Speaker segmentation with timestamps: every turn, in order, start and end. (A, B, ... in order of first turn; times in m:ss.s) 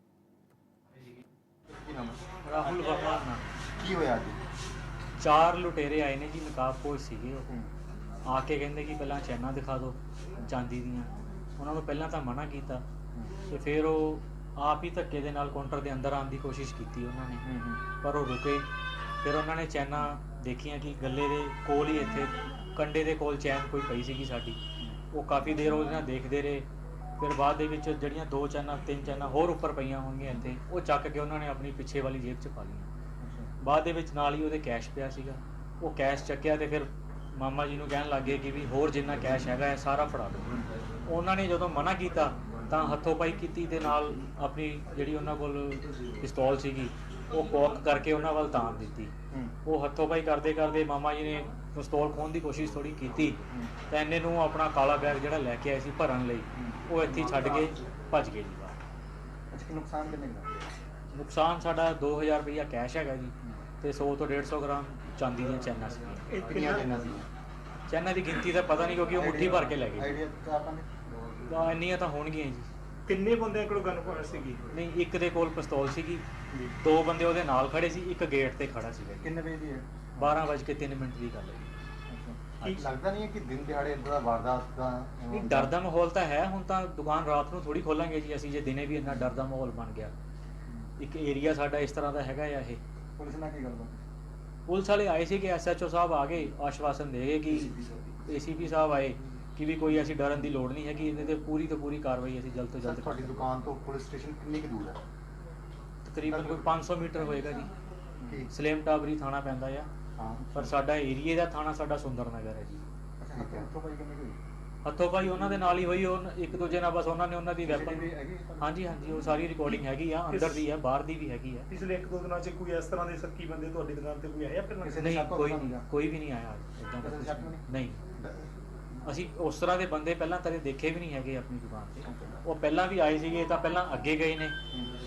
0:01.7-0:02.2 A
0:02.4-0:03.4 B
0:03.8-0:04.4 A
0:05.2-0:07.5 B
0:08.3-0:12.8 B
0:13.5-0:17.5 B
0:17.4-0:17.8 A
0:18.0-0:18.6 B
0:19.2-0:24.6 B
0:25.1-0:26.6 B
0:27.2-0:32.9 B
0:33.2-0:33.5 A
0:33.6-0:40.5 B
0:41.1-0:49.1 B
0:49.6-0:58.7 B
0:56.5-0:56.8 A
0:59.5-1:00.5 A
1:01.1-1:06.2 B
1:06.3-1:07.0 C
1:06.5-1:07.3 A
1:07.9-1:10.2 B
1:09.2-1:10.9 A
1:11.5-1:12.7 B
1:13.0-1:14.6 C
1:14.7-1:16.2 B
1:16.8-1:19.4 B
1:19.2-1:20.4 A
1:20.2-1:21.7 B
1:22.1-1:25.7 A
1:22.6-1:22.9 B
1:25.3-1:30.1 B
1:29.0-1:29.3 A
1:31.0-1:32.8 B
1:33.2-1:34.0 A
1:34.7-1:37.8 B
1:38.3-1:43.5 B
1:42.8-1:45.0 A
1:46.0-1:47.7 B
1:46.2-1:46.7 A
1:48.2-1:48.5 A
1:48.5-1:49.9 B
1:50.2-1:50.7 A
1:50.5-1:52.9 B
1:53.2-1:53.8 A
1:54.8-2:01.7 B
1:57.6-1:58.7 A
2:00.3-2:00.6 C
2:01.7-2:05.1 C
2:04.8-2:05.8 A
2:04.9-2:08.0 B
2:07.0-2:07.6 A
2:08.2-2:08.4 A
2:09.0-2:14.5 B